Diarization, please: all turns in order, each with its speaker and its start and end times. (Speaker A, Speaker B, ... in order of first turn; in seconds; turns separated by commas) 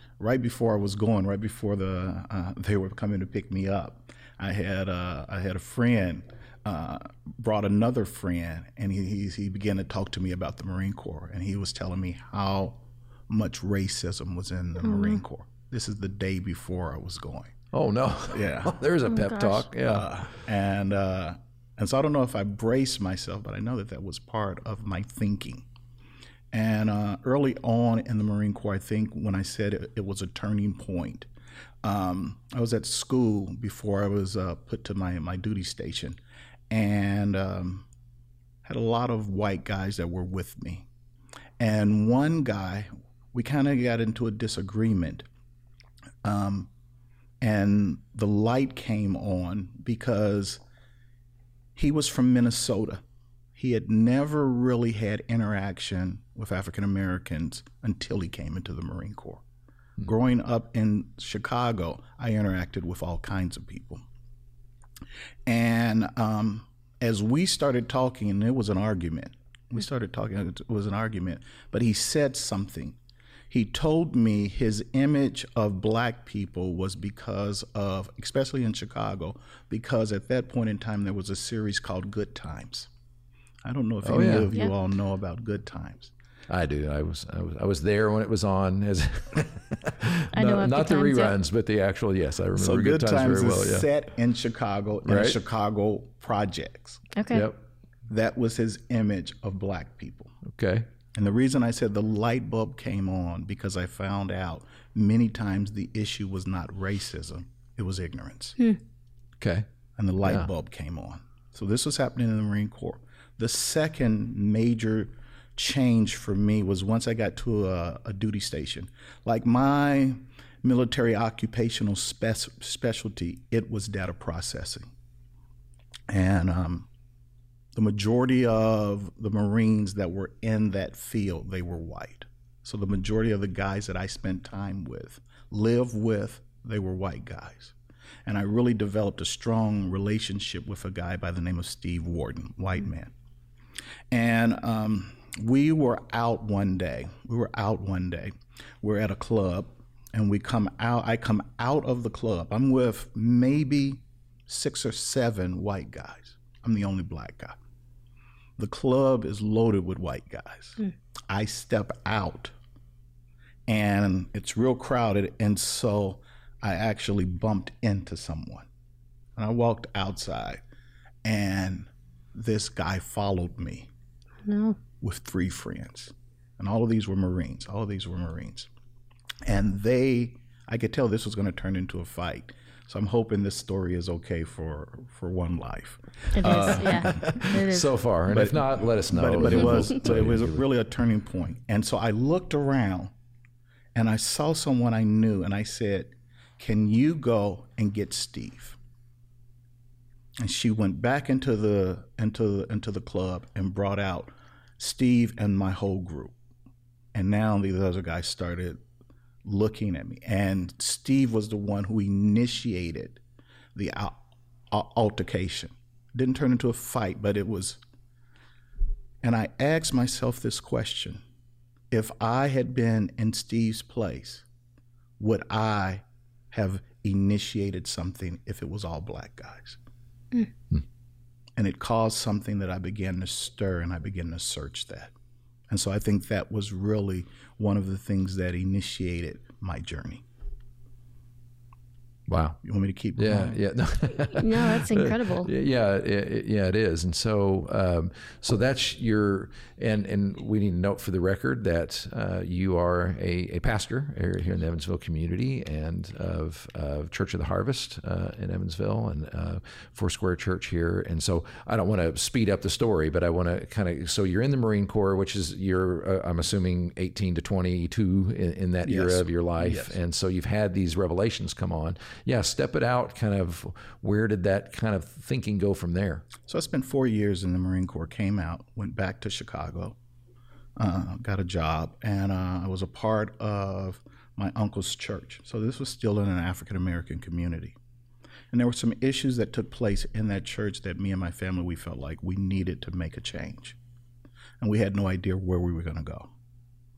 Speaker A: 0.2-17.6, Speaker B: 14.8-15.2, Speaker C: 17.7-20.1, Speaker A: 18.3-18.8, Speaker B: 19.1-19.7, Speaker A: 19.9-25.7, Speaker A: 26.5-31.3, Speaker A: 31.8-36.2, Speaker A: 36.7-37.9, Speaker A: 38.6-40.9, Speaker A: 41.6-45.3, Speaker A: 46.2-46.7, Speaker A: 47.4-50.6, Speaker A: 51.8-53.0, Speaker A: 53.5-59.4, Speaker A: 60.0-64.0, Speaker A: 65.5-73.0, Speaker A: 73.5-82.9, Speaker A: 83.6-86.1, Speaker C: 84.0-84.5, Speaker C: 86.5-93.9, Speaker B: 90.3-91.3, Speaker A: 92.6-97.0, Speaker C: 95.0-95.4, Speaker B: 97.2-97.5, Speaker C: 97.3-97.6, Speaker A: 98.1-100.4, Speaker C: 100.5-100.9, Speaker A: 101.1-108.6, Speaker C: 109.4-109.7, Speaker A: 110.0-124.9, Speaker C: 110.2-110.5, Speaker A: 126.1-126.9, Speaker A: 127.8-137.8, Speaker A: 138.3-143.1, Speaker A: 144.1-157.6, Speaker A: 158.6-162.5, Speaker A: 163.7-168.7, Speaker A: 169.4-170.6, Speaker A: 171.2-173.9, Speaker B: 174.5-174.8, Speaker A: 175.0-178.7, Speaker A: 179.4-187.4, Speaker B: 186.3-187.9, Speaker C: 186.5-190.7, Speaker A: 188.3-193.1, Speaker A: 193.9-198.8, Speaker A: 200.4-206.3, Speaker A: 207.1-208.8, Speaker A: 209.4-213.2, Speaker A: 213.8-217.8, Speaker A: 219.2-221.2, Speaker A: 221.9-224.5, Speaker A: 225.2-229.8, Speaker A: 231.6-235.1, Speaker A: 235.7-240.2, Speaker C: 242.3-242.6, Speaker A: 242.6-243.7, Speaker C: 243.2-276.3, Speaker B: 244.1-245.5, Speaker A: 268.8-270.0, Speaker A: 276.4-280.0, Speaker A: 280.8-287.8, Speaker A: 288.5-293.8, Speaker A: 294.6-296.3